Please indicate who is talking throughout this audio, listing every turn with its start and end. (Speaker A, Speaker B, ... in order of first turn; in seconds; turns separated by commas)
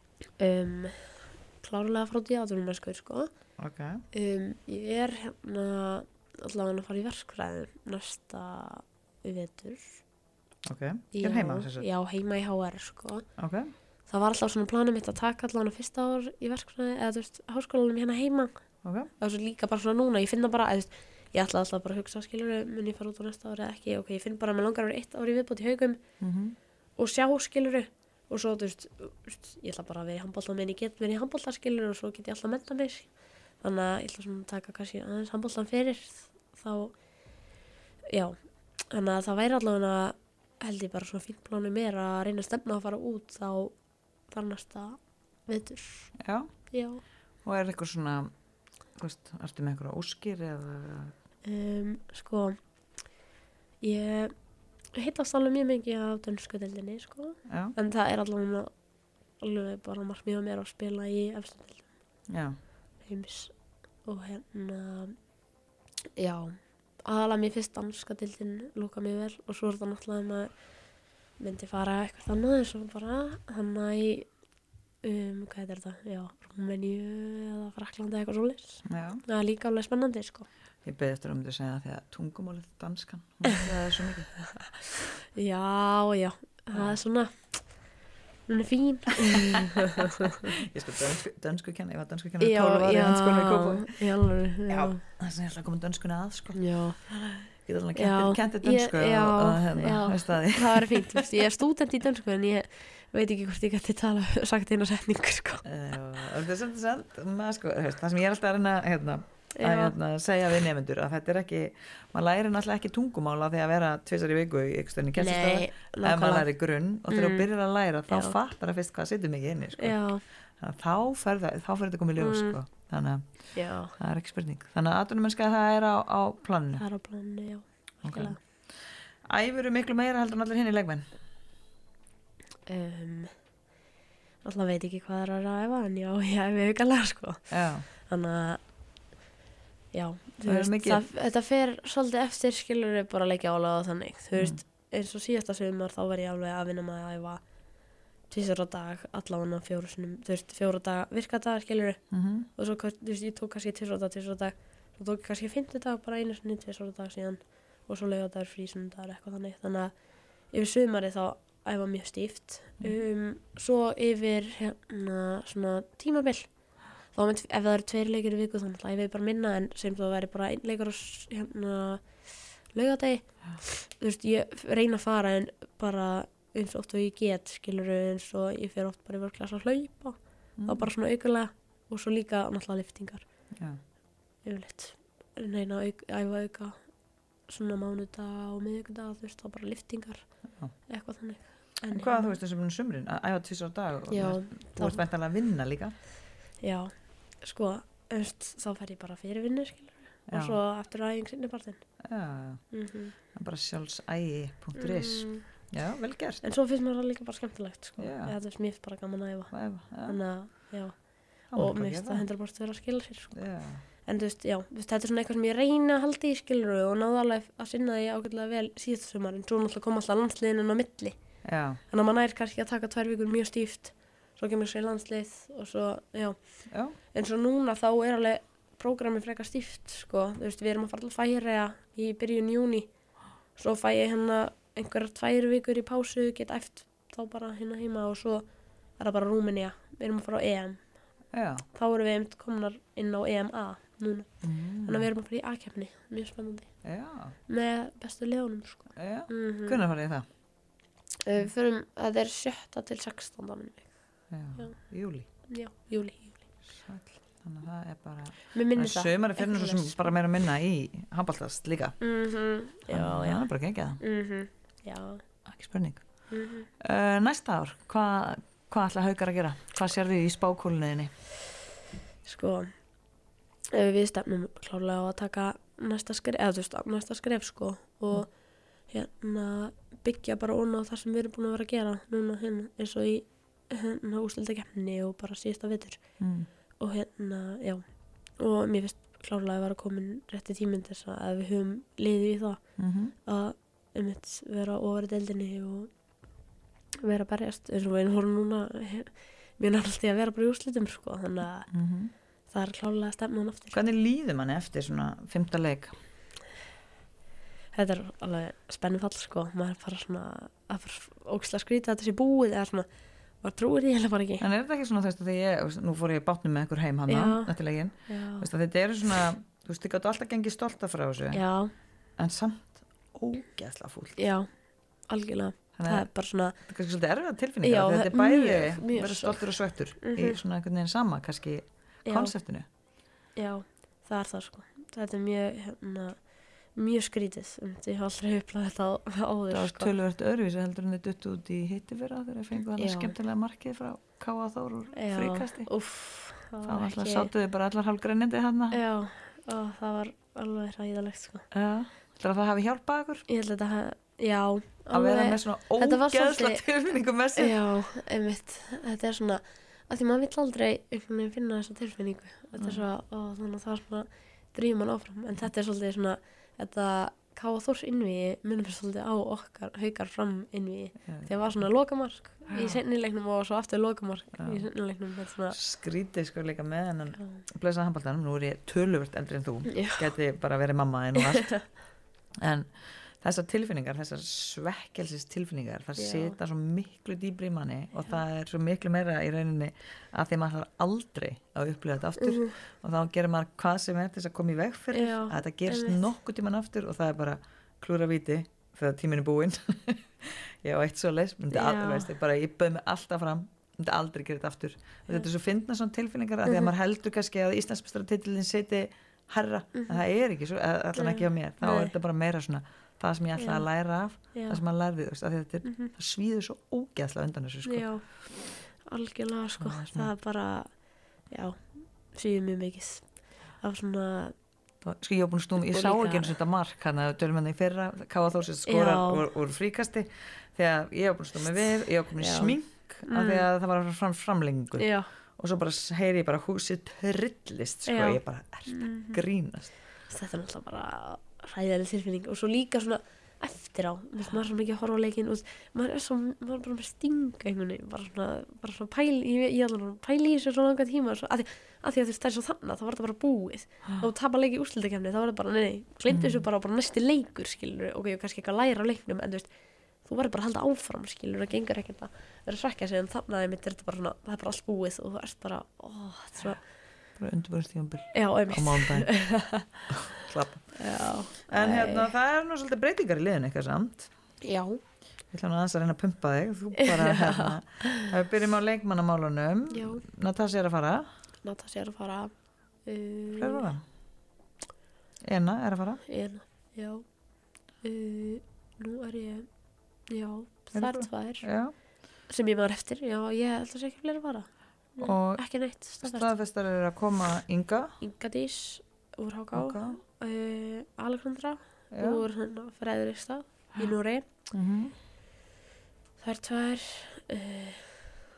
Speaker A: 0.4-3.3, Speaker B: 3.6-4.0, Speaker A: 4.1-10.0, Speaker B: 10.6-11.9, Speaker A: 11.1-13.2, Speaker B: 13.4-13.7, Speaker A: 14.1-18.6, Speaker B: 18.8-19.1, Speaker A: 19.2-26.0, Speaker B: 26.2-26.6, Speaker A: 27.0-33.1, Speaker A: 33.6-36.9, Speaker A: 38.1-38.4, Speaker A: 38.9-43.7, Speaker A: 44.3-46.1, Speaker B: 46.2-46.5, Speaker A: 46.7-47.0, Speaker B: 47.4-48.3, Speaker B: 49.0-51.1, Speaker A: 51.4-52.6, Speaker A: 53.8-54.3, Speaker A: 54.9-58.7, Speaker B: 57.5-57.7, Speaker A: 59.4-61.9, Speaker B: 62.3-62.6, Speaker A: 63.0-63.5, Speaker A: 64.0-65.2, Speaker A: 66.2-70.5, Speaker A: 71.4-74.3, Speaker A: 75.0-80.5, Speaker B: 78.9-79.2, Speaker B: 80.8-84.3, Speaker A: 83.5-83.8, Speaker A: 84.4-84.7, Speaker A: 85.3-87.6, Speaker A: 88.5-90.5, Speaker B: 89.2-94.0, Speaker A: 92.4-95.0, Speaker B: 94.7-101.5, Speaker A: 96.5-97.0, Speaker A: 98.0-105.6, Speaker B: 105.6-120.0, Speaker A: 109.5-109.9, Speaker A: 115.2-116.5, Speaker A: 117.1-117.5, Speaker A: 118.1-118.4, Speaker A: 119.8-120.2, Speaker B: 120.6-123.2, Speaker A: 122.2-122.6, Speaker A: 123.5-123.9, Speaker B: 124.0-126.8, Speaker A: 126.8-128.4, Speaker B: 128.0-128.4, Speaker B: 129.3-131.1, Speaker A: 132.7-133.3, Speaker A: 134.4-138.6, Speaker B: 137.5-137.9, Speaker A: 139.9-147.4, Speaker B: 140.4-141.0, Speaker A: 148.3-152.0, Speaker B: 152.1-152.5, Speaker A: 152.6-159.9, Speaker A: 160.5-166.5, Speaker A: 167.1-172.0, Speaker A: 172.7-183.2, Speaker B: 180.6-180.9, Speaker B: 183.5-183.8, Speaker A: 184.4-186.8, Speaker A: 187.5-190.2, Speaker A: 190.9-192.3, Speaker B: 191.9-195.9, Speaker A: 194.1-195.0, Speaker A: 196.6-201.8, Speaker B: 200.3-200.6, Speaker B: 202.0-202.6, Speaker A: 202.7-203.1, Speaker B: 203.3-206.4, Speaker A: 204.8-205.4, Speaker A: 206.4-209.5, Speaker B: 208.0-208.4, Speaker B: 209.5-210.2, Speaker A: 210.0-210.9, Speaker B: 211.5-212.2, Speaker A: 211.5-213.4, Speaker B: 213.3-213.8, Speaker A: 214.0-221.2, Speaker B: 221.4-221.8, Speaker A: 221.9-226.4, Speaker B: 226.7-227.0, Speaker A: 227.1-232.9, Speaker A: 233.6-238.4, Speaker A: 239.0-240.8, Speaker B: 241.3-241.7, Speaker A: 241.7-244.3, Speaker B: 244.4-245.1, Speaker A: 244.8-246.7, Speaker B: 246.8-247.4, Speaker A: 247.5-249.8, Speaker B: 249.0-250.2, Speaker A: 251.2-253.9, Speaker B: 254.3-255.3, Speaker A: 255.5-256.4, Speaker B: 256.6-261.9, Speaker A: 258.5-260.1, Speaker A: 262.0-263.4, Speaker B: 262.9-264.0, Speaker A: 264.0-265.2, Speaker B: 265.4-266.0, Speaker A: 266.3-266.7, Speaker B: 266.8-271.1, Speaker A: 272.2-272.7, Speaker A: 273.7-278.3, Speaker A: 278.9-286.0, Speaker B: 286.2-286.5, Speaker A: 286.8-287.8, Speaker A: 288.4-292.6, Speaker B: 292.8-293.1, Speaker A: 293.2-295.9, Speaker A: 297.0-301.7, Speaker B: 301.7-302.1, Speaker A: 302.5-303.8, Speaker B: 303.7-305.9, Speaker A: 307.7-312.9, Speaker A: 313.4-314.4, Speaker B: 314.4-321.4, Speaker A: 317.1-317.5, Speaker A: 318.1-318.5, Speaker A: 321.3-321.7, Speaker B: 322.2-324.2, Speaker A: 324.2-324.5, Speaker A: 325.1-326.6, Speaker B: 325.8-326.1, Speaker B: 326.6-332.7, Speaker A: 327.6-329.5, Speaker A: 330.0-330.4, Speaker A: 332.1-332.3, Speaker A: 333.4-336.2, Speaker A: 336.8-339.9, Speaker B: 339.5-345.7, Speaker A: 342.8-343.1, Speaker A: 344.9-347.3, Speaker B: 346.6-348.8, Speaker A: 348.7-351.5, Speaker B: 351.5-353.2, Speaker A: 353.3-356.7, Speaker B: 354.9-357.6, Speaker A: 357.4-375.6, Speaker B: 372.5-372.8, Speaker B: 374.4-374.6, Speaker B: 375.5-381.6, Speaker A: 379.7-380.1, Speaker A: 381.2-381.6, Speaker B: 382.4-417.9, Speaker A: 386.0-386.4, Speaker A: 392.3-392.5, Speaker A: 394.9-396.0, Speaker A: 401.5-402.1, Speaker A: 406.4-406.7, Speaker A: 409.7-410.0, Speaker A: 410.9-411.9, Speaker A: 413.4-413.6, Speaker A: 415.6-415.9, Speaker A: 417.6-418.0, Speaker A: 418.9-420.7, Speaker B: 419.6-420.1, Speaker A: 421.3-423.1, Speaker A: 423.6-424.3, Speaker B: 424.8-439.7, Speaker A: 425.6-426.3, Speaker A: 428.6-429.3, Speaker A: 432.2-432.6, Speaker A: 433.1-433.4, Speaker A: 434.8-435.1, Speaker A: 437.9-439.2, Speaker A: 440.1-459.5, Speaker B: 456.1-456.4, Speaker A: 460.1-466.6, Speaker B: 467.2-469.1, Speaker A: 468.1-472.1, Speaker B: 469.9-470.8, Speaker B: 471.5-474.1, Speaker A: 474.4-474.8, Speaker B: 475.3-481.1, Speaker A: 476.8-478.1, Speaker A: 479.7-480.0, Speaker A: 481.4-482.3, Speaker A: 482.9-483.7, Speaker B: 483.3-483.8, Speaker B: 485.2-486.0, Speaker A: 486.1-487.1, Speaker A: 487.8-489.5, Speaker A: 490.1-491.5, Speaker B: 490.7-491.7, Speaker A: 492.3-496.3, Speaker B: 495.0-495.4, Speaker B: 496.0-497.9, Speaker A: 498.0-504.3, Speaker B: 499.6-500.0, Speaker B: 501.9-502.2, Speaker B: 504.5-504.9, Speaker A: 506.2-508.1